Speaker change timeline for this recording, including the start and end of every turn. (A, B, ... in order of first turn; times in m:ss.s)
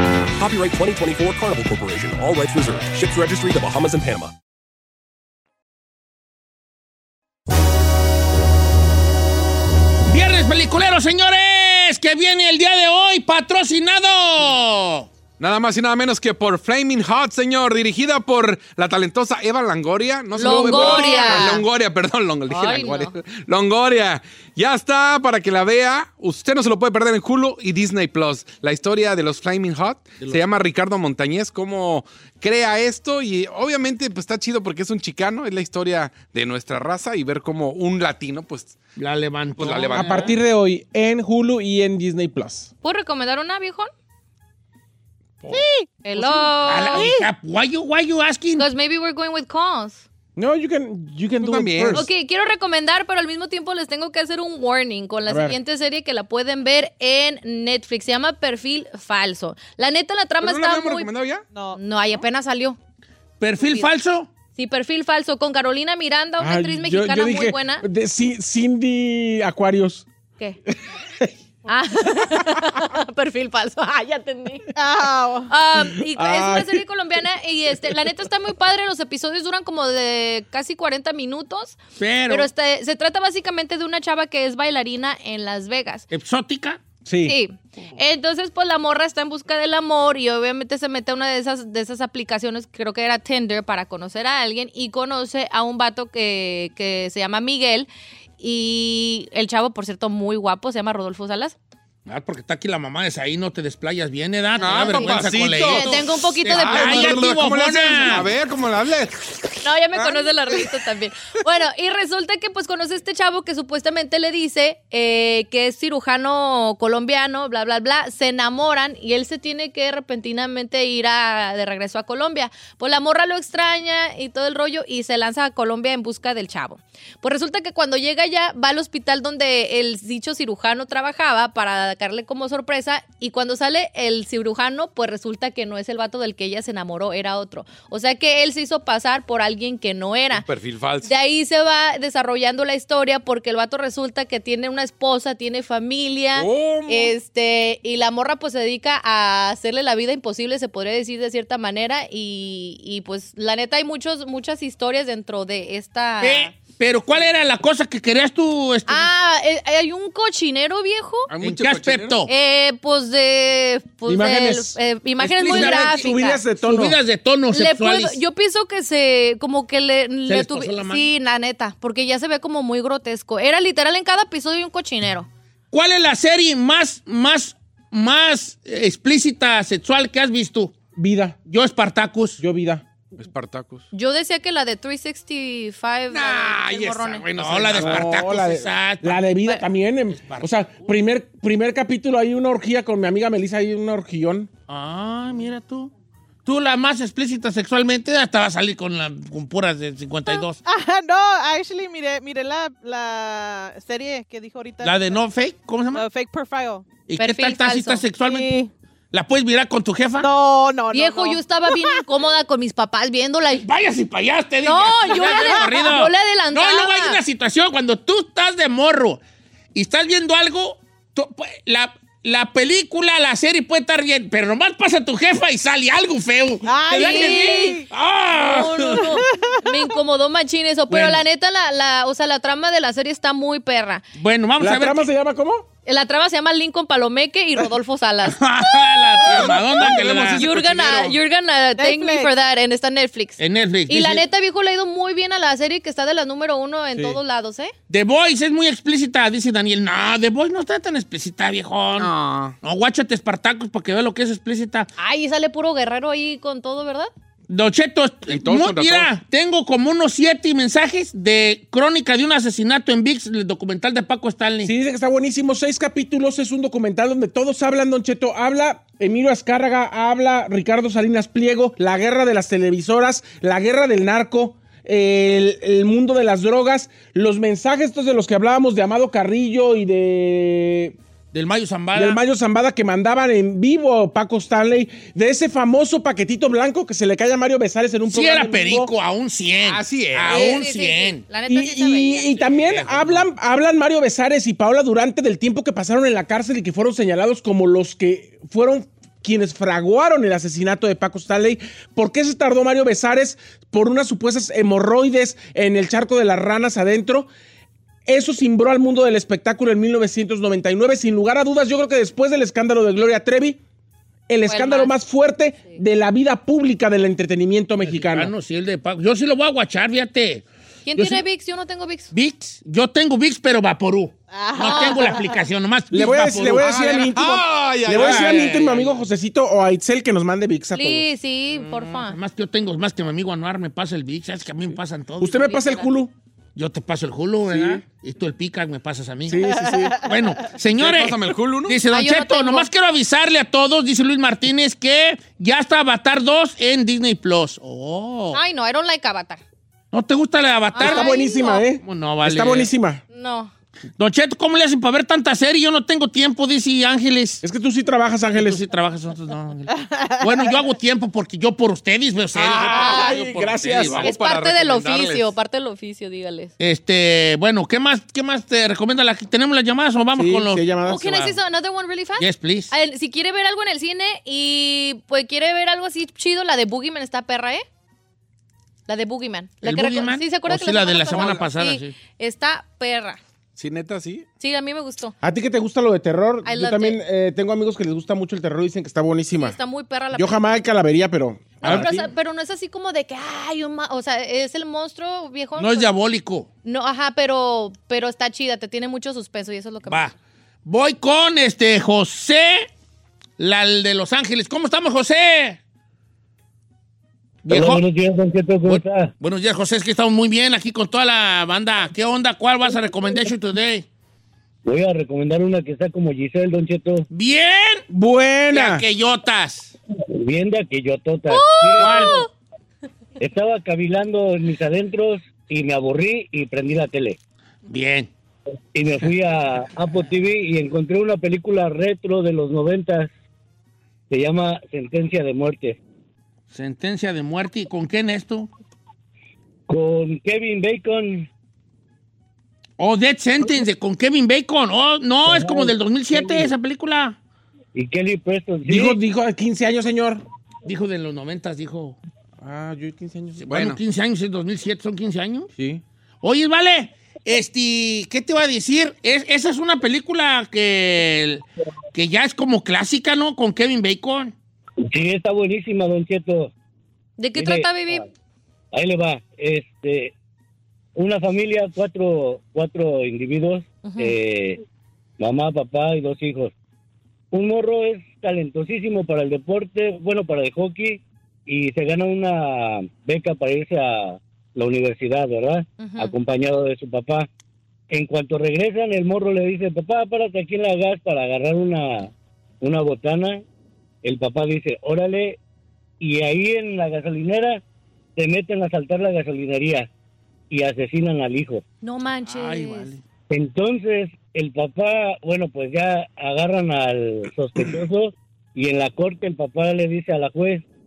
0:00.4-0:04.3 A
0:10.1-0:15.1 B
0:15.4-0:38.8 C
0:20.4-0:21.7 D
0:20.4-0:21.3 B
0:22.5-0:23.2 D
0:39.0-0:40.4 B
0:39.6-0:40.4 C
0:39.9-0:42.7 E
0:42.8-0:43.9 D
0:45.5-0:47.2 F
0:46.0-0:47.1 D
0:46.6-0:48.7 B
0:48.6-0:50.0 D
0:50.4-0:52.0 E
0:51.4-0:52.1 C
0:51.9-1:01.1 D
0:55.3-0:55.6 E
1:00.4-1:01.4 C
1:01.5-1:01.8 F
1:01.8-1:02.8 D
1:03.4-1:04.3 B
1:03.6-1:03.9 D
1:04.6-1:07.8 D
1:06.4-1:10.1 E
1:10.7-1:11.3 E
1:11.7-1:14.7 D
1:14.8-1:15.5 F
1:15.5-1:26.1 D
1:15.8-1:16.8 E
1:22.0-1:22.5 B
1:26.1-1:26.8 B
1:27.1-1:27.4 E
1:27.2-1:41.6 D
1:42.1-1:48.3 B
1:44.6-1:49.5 C
1:44.7-1:47.3 D
1:49.6-2:20.5 D
2:20.3-2:21.1 C
2:21.0-2:36.5 D
2:26.4-2:27.1 C
2:36.2-2:39.1 B
2:38.9-2:41.3 D
2:41.3-2:42.3 C
2:41.4-2:42.3 B
2:42.3-2:46.4 D
2:44.1-2:44.8 E
2:45.2-2:48.2 B
2:45.5-2:47.0 E
2:47.5-2:55.3 D
2:50.3-2:51.1 B
2:55.7-3:00.8 B
3:01.0-3:01.4 E
3:01.5-3:02.4 B
3:02.4-3:02.8 E
3:03.2-3:03.9 C
3:03.9-3:07.3 D
3:06.1-3:08.1 C
3:07.4-3:09.2 B
3:07.8-3:14.5 E
3:10.1-3:10.5 B
3:14.7-3:15.9 B
3:16.4-3:20.6 B
3:20.6-3:25.2 F
3:24.8-3:26.1 B
3:25.9-3:26.8 F
3:27.1-3:28.6 B
3:27.2-3:28.0 D
3:28.2-3:28.7 F
3:29.1-3:30.3 B
3:30.2-3:31.4 F
3:30.9-3:33.7 D
3:33.6-3:39.2 B
3:34.6-3:37.2 D
3:35.3-3:35.8 F
3:39.7-3:49.2 B
3:46.6-3:47.8 F
3:46.9-3:47.8 D
3:48.4-3:54.0 D
3:49.2-3:49.9 F
3:50.9-3:51.2 B
3:54.2-3:55.1 B
3:54.6-3:55.7 E
3:55.9-3:58.4 D
3:58.2-4:00.5 B
3:59.3-4:01.2 C
4:00.4-4:07.7 D
4:01.8-4:02.3 F
4:03.4-4:04.3 B
4:07.9-4:14.9 B
4:12.0-4:12.6 C
4:15.0-4:17.1 D
4:17.5-4:24.7 B
4:18.3-4:19.1 C
4:24.6-4:41.0 E
4:41.3-4:42.2 B
4:41.9-4:48.9 E
4:48.1-4:51.2 B
4:49.6-4:50.5 C
4:50.3-4:52.6 D
4:51.5-5:07.3 E
4:52.5-4:53.2 B
5:08.1-5:13.6 E
5:14.3-5:18.3 E
5:14.5-5:14.9 D
5:17.9-5:20.4 B
5:20.9-5:22.1 D
5:21.0-5:21.2 B
5:22.1-5:26.8 B
5:24.3-5:25.4 F
5:25.9-5:31.1 E
5:26.5-5:28.7 C
5:27.9-5:29.1 B
5:30.7-5:32.2 D
5:31.5-5:35.6 B
5:35.2-5:36.1 E
5:35.3-5:35.9 D
5:36.6-5:48.4 B
5:37.5-5:37.8 E
5:39.3-5:40.0 E
5:39.4-5:40.5 F
5:40.7-5:41.8 C
5:41.9-5:42.7 D
5:48.3-5:49.4 D
5:49.9-5:51.2 B
5:50.7-5:51.7 D
5:50.8-5:53.0 E
5:51.8-5:52.7 B
5:53.1-5:53.5 D
5:54.0-5:57.4 B
5:57.4-5:58.6 E
5:58.3-6:04.1 B
5:59.7-6:00.5 F
6:02.4-6:04.1 E
6:02.4-6:02.9 C
6:02.8-6:03.2 D
6:03.9-6:05.3 C
6:04.0-6:06.5 D
6:06.6-6:11.4 B
6:10.2-6:11.1 E
6:10.9-6:17.6 D
6:12.2-6:12.7 B
6:18.9-6:23.2 D
6:19.6-6:22.0 B
6:21.1-6:21.4 C
6:23.6-6:24.3 C
6:24.4-6:25.2 D
6:25.2-6:29.6 E
6:26.4-6:27.0 D
6:29.4-6:30.6 D
6:30.1-6:32.0 E
6:31.6-6:35.9 D
6:31.6-6:32.1 B
6:35.6-6:36.5 B
6:36.6-6:40.1 D
6:39.9-6:40.1 B
6:40.6-6:42.7 B
6:43.4-6:45.6 B
6:47.4-6:47.8 B
6:47.5-6:49.1 G
6:48.7-6:53.9 B
6:54.6-6:57.1 G
6:57.1-6:57.8 B
6:57.9-6:58.9 E
6:58.5-6:59.8 B
7:00.1-7:02.2 G
7:01.3-7:02.3 D
7:01.8-7:02.2 B
7:03.2-7:07.2 G
7:07.7-7:08.1 B
7:08.7-7:13.1 G
7:14.1-7:15.8 G
7:16.5-7:18.5 B
7:19.7-7:21.3 G
7:22.8-7:27.2 B
7:25.2-7:26.5 G
7:27.8-7:29.0 G
7:28.7-7:30.2 E
7:30.6-7:32.0 B
7:32.4-7:33.4 E
7:33.4-7:35.5 B
7:33.5-7:33.8 C
7:36.2-7:44.3 B
7:44.9-7:46.5 G
7:47.2-7:48.0 D
7:47.4-7:48.0 G
7:48.7-7:50.1 G
7:51.0-7:54.6 G
7:53.8-7:54.2 D
7:55.2-7:56.5 G
7:57.3-8:07.3 G
8:05.8-8:06.2 D
8:07.9-8:13.4 G
8:14.0-8:15.4 G
8:16.0-8:17.6 G
8:18.2-8:19.9 G
8:20.5-8:21.6 G
8:21.8-8:22.9 D
8:22.3-8:23.0 B
8:23.3-8:30.6 G